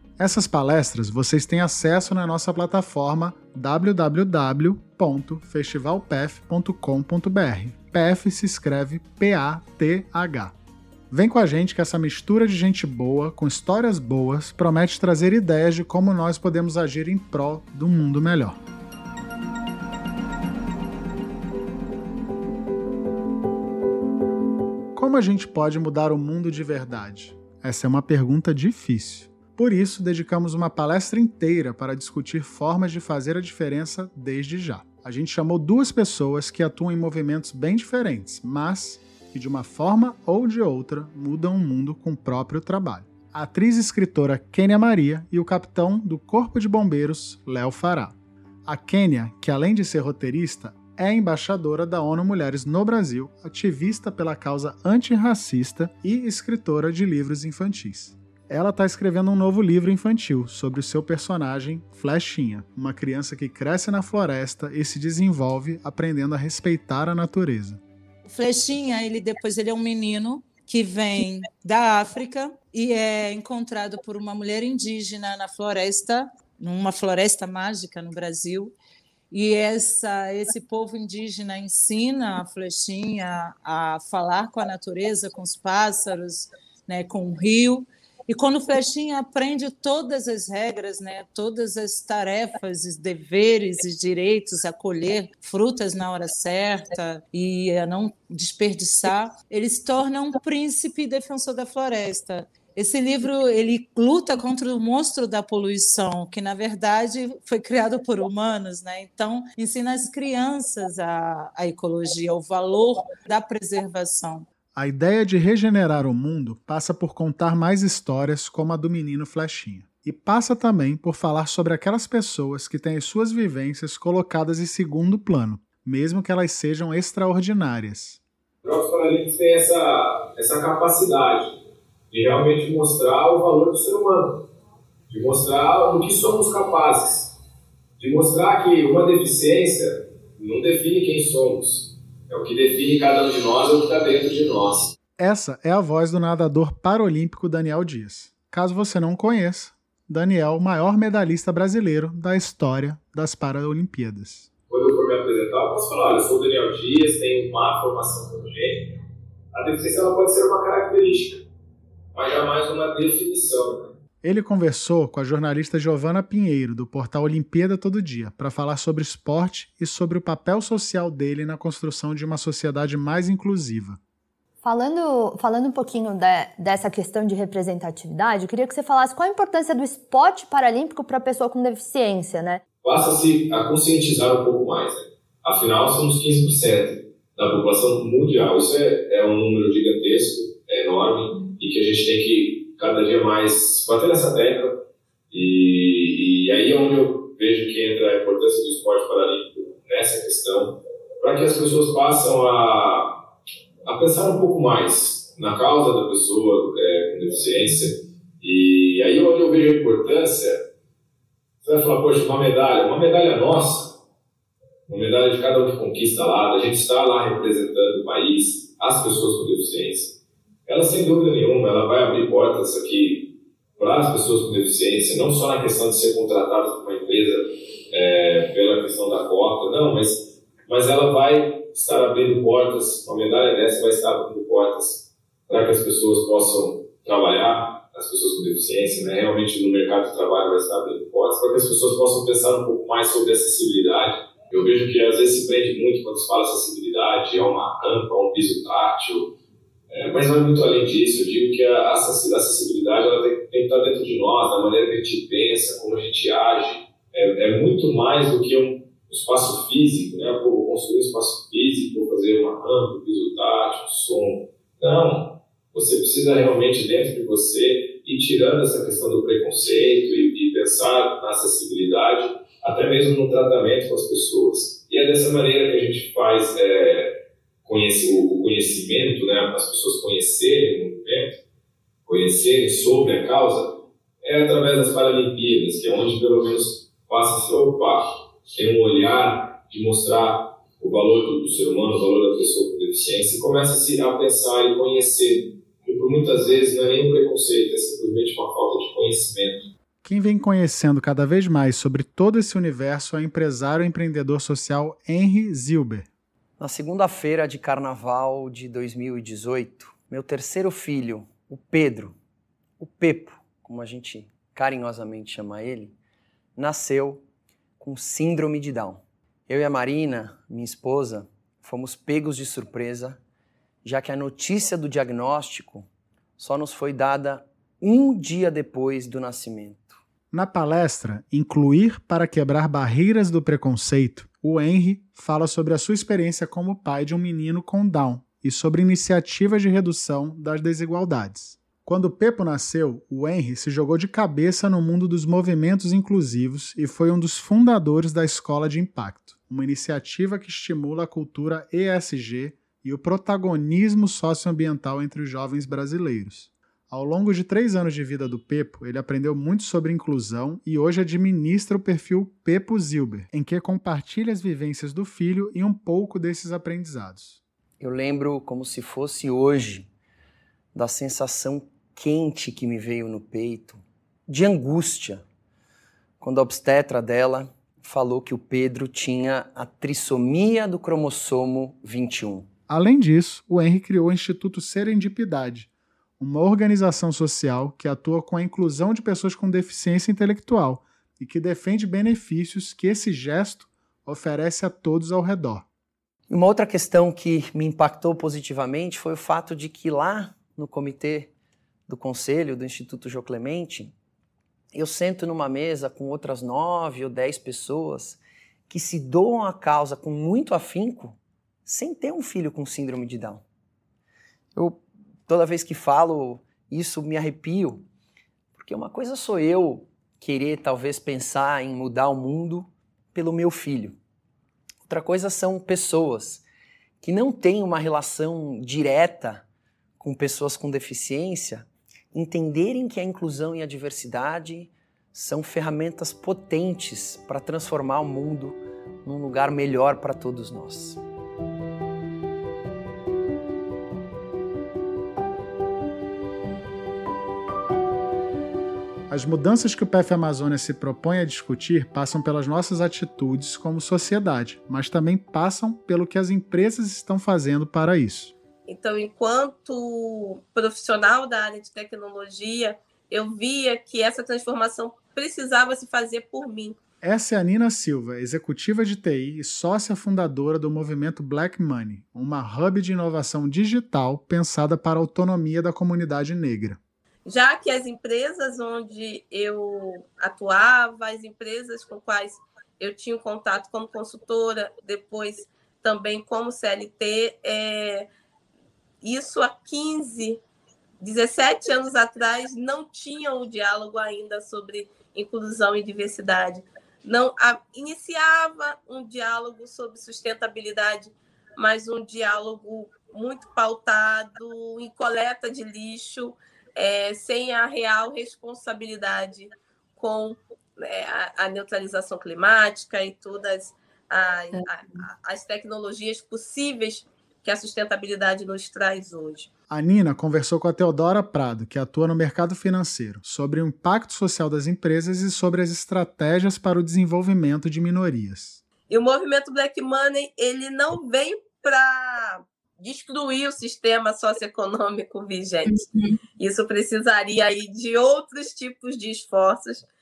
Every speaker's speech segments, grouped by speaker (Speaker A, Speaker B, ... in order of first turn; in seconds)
Speaker A: 0.2-10.5, 11.1-18.6, 24.9-48.1, 48.6-67.8, 114.7-128.2, 145.2-154.5, 164.2-174.0, 300.0-306.1, 330.3-367.4, 382.7-385.7, 386.2-395.6, 449.1-458.3, 467.0-476.8, 519.7-528.6
Speaker B: 68.2-78.7, 79.3-114.5
Speaker C: 128.6-131.5, 132.1-134.4, 135.1-137.3, 138.0-144.9, 154.7-159.0, 159.5-161.4, 162.1-163.9, 182.8-194.7, 195.3-203.1, 203.8-210.6, 211.6-214.0, 214.9-220.1, 220.7-249.3, 249.9-277.1, 277.6-281.4, 282.1-299.7
Speaker D: 174.6-182.6
Speaker E: 306.6-312.1, 312.8-315.9, 316.6-317.2, 317.8-323.2, 323.8-325.9, 326.4-330.0, 367.8-369.9, 370.7-375.2, 376.2-382.5, 396.3-401.3, 401.9-403.9, 404.7-413.4, 414.5-417.8, 418.5-424.0, 424.9-426.4, 427.0-429.4, 430.0-441.0
Speaker F: 458.7-466.8, 477.2-488.1, 489.0-490.4, 491.0-519.5, 528.9-535.9, 536.4-539.9